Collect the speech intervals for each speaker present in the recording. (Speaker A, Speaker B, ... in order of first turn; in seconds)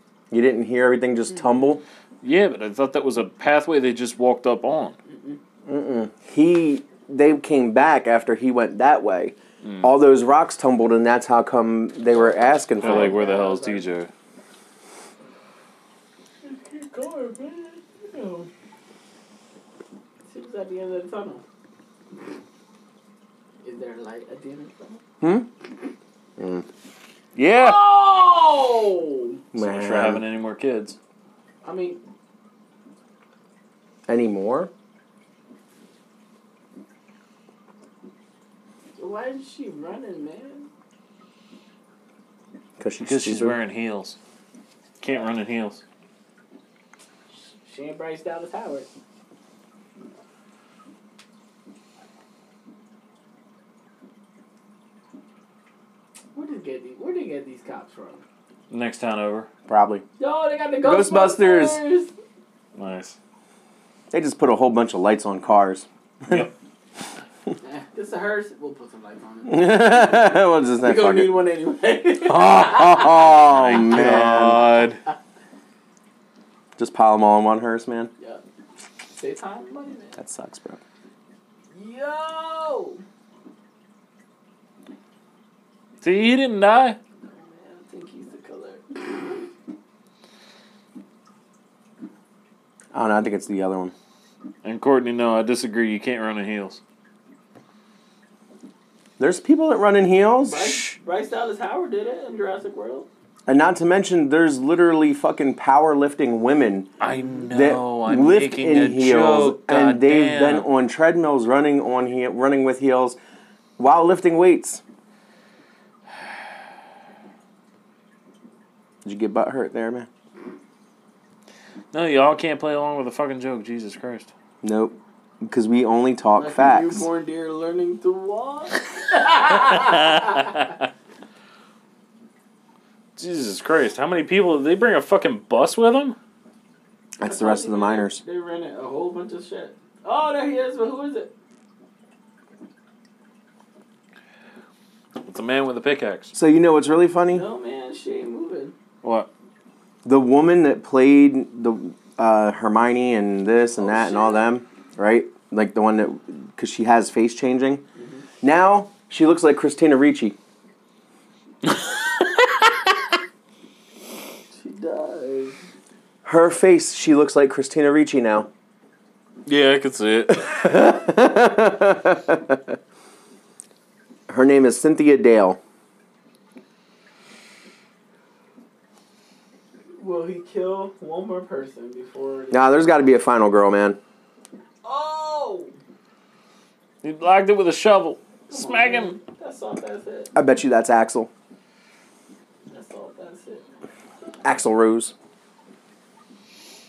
Speaker A: 0.3-1.8, 5.7-13.2, 25.2-25.5, 26.4-26.7, 29.5-30.2, 34.1-34.7, 42.8-43.6, 59.7-60.0, 60.8-61.8, 64.1-66.5, 69.5-71.3, 72.3-74.7, 76.8-78.1, 80.2-80.8, 92.9-93.9, 99.2-100.8, 103.5-106.9, 107.5-113.2, 113.8-114.8, 119.0-120.1, 124.6-127.1, 137.2-138.2, 146.3-147.4, 150.1-157.8, 158.4-160.4, 166.2-168.5, 170.3-172.8, 174.3-175.6, 182.5-184.0, 190.3-191.3, 194.4-195.1
Speaker B: 2.2-5.0, 12.8-14.1, 27.4-27.8, 29.6-31.0, 43.0-44.2, 45.0-45.8, 58.7-59.5, 62.8-63.2, 73.4-75.0, 86.0-87.0, 94.6-96.8, 107.0-110.7, 121.9-124.3, 129.8-130.5, 133.2-136.2, 145.2-146.3, 149.0-149.3, 161.7-162.6, 169.5-170.5, 187.0-189.2
Speaker C: 5.1-5.4, 12.1-13.9, 16.4-18.5, 20.3-21.4, 23.6-25.0, 27.5-29.4, 31.6-32.0, 39.0-40.7, 47.4-48.9, 56.4-58.2, 60.2-62.1, 67.6-73.4, 79.2-80.2, 81.7-83.0, 87.2-89.5, 100.4-103.1, 126.3-130.6, 137.2-141.3, 147.3-148.8, 153.8-154.5, 158.0-158.2, 164.6-165.6, 180.0-182.7, 184.8-185.7, 188.5-190.3, 192.7-193.7